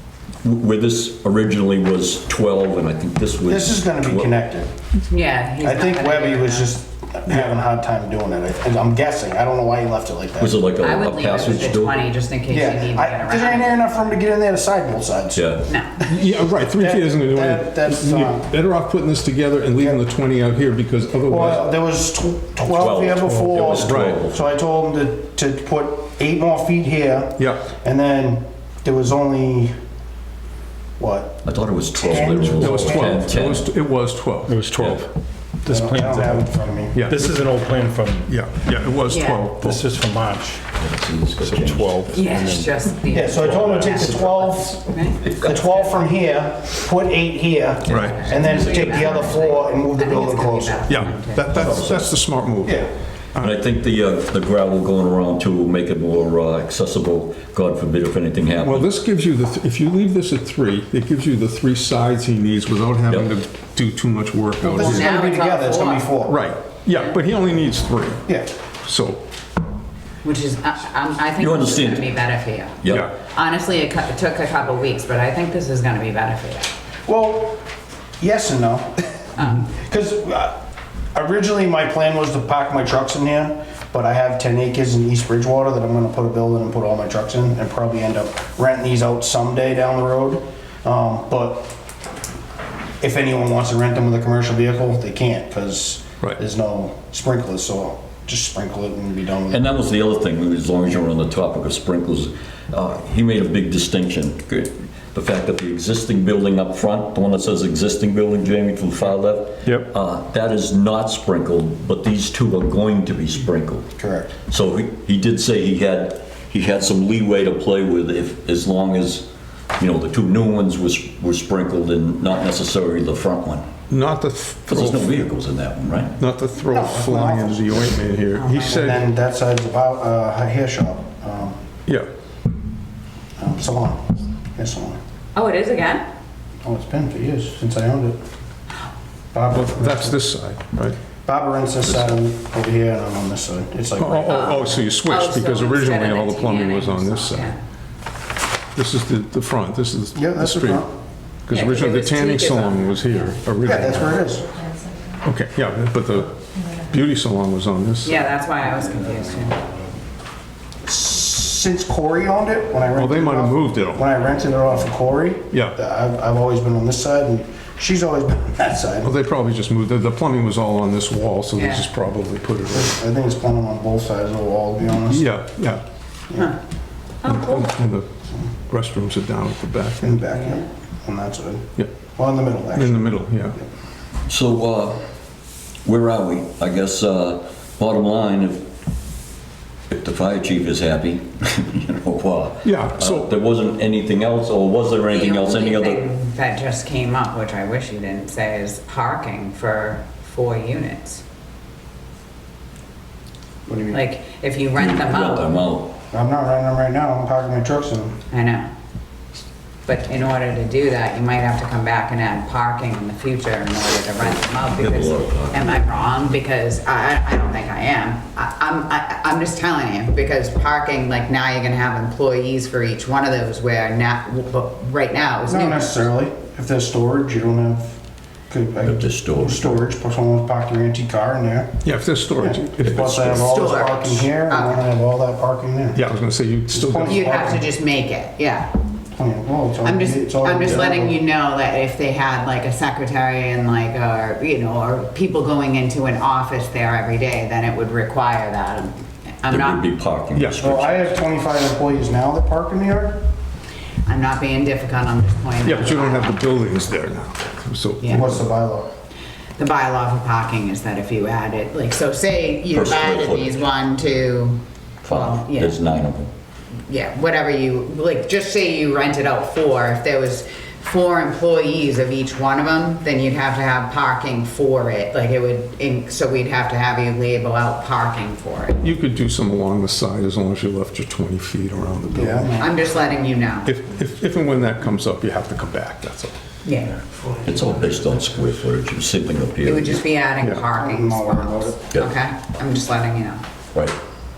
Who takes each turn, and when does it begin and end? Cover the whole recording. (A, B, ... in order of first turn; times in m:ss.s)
0:00.4-0:04.3 A
0:03.5-0:04.7 B
0:05.1-0:06.7 C
0:05.6-0:10.6 B
0:10.4-0:12.0 A
0:10.8-0:13.8 C
0:12.5-0:15.5 B
0:15.4-0:15.7 A
0:15.7-0:16.1 C
0:16.1-0:21.7 D
0:16.8-0:18.5 B
0:21.3-0:29.7 B
0:22.7-0:24.4 A
0:23.8-0:24.2 D
0:27.4-0:27.7 D
0:31.0-0:33.3 B
0:31.4-0:33.7 A
0:32.6-0:35.1 D
0:34.5-0:34.9 E
0:34.8-0:35.0 A
0:35.6-0:38.3 E
0:35.7-0:37.0 B
0:36.9-0:37.3 D
0:38.3-0:39.8 D
0:39.1-0:39.5 C
0:39.6-0:40.6 E
0:40.7-0:42.1 A
0:41.4-0:42.2 D
0:41.6-0:42.7 E
0:42.1-0:45.2 C
0:43.1-0:44.8 B
0:43.4-0:44.2 A
0:45.2-0:46.0 A
0:45.4-0:50.9 B
0:47.9-0:48.3 D
0:47.9-0:51.7 C
0:47.9-0:49.2 A
0:50.9-0:52.8 D
0:51.6-0:52.0 B
0:51.6-0:52.0 A
0:52.6-0:52.9 B
0:53.4-0:58.9 A
0:58.6-1:05.1 D
1:04.6-1:06.4 B
1:04.7-1:06.1 C
1:06.3-1:08.3 D
1:08.8-1:09.2 D
1:10.2-1:16.7 C
1:11.4-1:12.1 A
1:12.8-1:13.1 A
1:17.1-1:17.6 B
1:18.2-1:20.6 B
1:19.4-1:19.7 C
1:21.1-1:31.7 B
1:33.0-1:39.6 B
1:39.5-1:53.9 A
1:49.6-1:49.9 D
1:54.0-1:54.3 B
1:54.5-1:59.3 A
1:59.8-2:03.6 A
2:03.9-2:05.2 D
2:04.7-2:06.1 A
2:06.2-2:09.0 D
2:06.7-2:08.0 B
2:08.4-2:08.9 C
2:08.6-2:11.6 B
2:13.4-2:14.0 B
2:14.6-2:15.0 B
2:15.4-2:16.0 C
2:16.6-2:18.2 B
2:19.3-2:20.2 B
2:19.5-2:21.0 D
2:21.2-2:24.8 B
2:24.0-2:27.6 D
2:24.3-2:27.6 C
2:28.8-2:30.8 D
2:30.2-2:30.9 B
2:31.5-2:34.1 D
2:31.5-2:33.4 C
2:33.6-2:34.5 B
2:35.2-2:38.3 D
2:38.0-2:39.6 C
2:40.8-2:49.1 B
2:43.0-2:44.1 D
2:49.0-2:53.0 D
2:51.6-2:51.8 C
2:52.7-2:55.2 B
2:55.1-2:55.8 D
2:57.2-2:57.7 C
2:57.2-2:58.1 D
2:58.7-3:00.1 D
3:00.0-3:03.1 B
3:00.4-3:00.7 C
3:02.7-3:03.6 D
3:04.3-3:05.0 A
3:05.8-3:08.6 A
3:09.9-3:16.0 A
3:12.6-3:13.3 D
3:15.1-3:21.2 C
3:23.7-3:24.0 B
3:23.9-3:25.6 C
3:24.8-3:25.9 A
3:26.1-3:28.2 B
3:28.3-3:28.7 C
3:29.9-3:46.1 C
3:34.2-3:35.8 A
3:45.5-3:48.0 B
3:48.5-3:51.8 B
3:48.8-3:49.8 A
3:51.8-3:53.4 D
3:52.4-3:56.0 B
3:52.8-3:53.4 A
3:53.4-3:54.9 C
3:56.0-3:57.3 D
3:56.7-3:57.6 B
3:57.0-3:58.7 C
3:59.2-4:01.2 B
3:59.8-4:09.8 C
4:09.5-4:11.2 A
4:10.6-4:13.2 B
4:14.1-4:16.4 C
4:15.6-4:18.4 D
4:18.0-4:18.3 C
4:18.1-4:18.9 B
4:19.6-4:25.8 C
4:22.7-4:23.6 A
4:25.0-4:26.3 A
4:26.9-4:38.8 C
4:38.8-4:42.5 D
4:42.1-4:42.8 B
4:42.6-4:43.7 C
4:43.6-4:46.3 D
4:46.6-4:47.0 C
4:47.4-4:50.0 A
4:49.6-4:53.4 C
4:50.7-4:51.8 B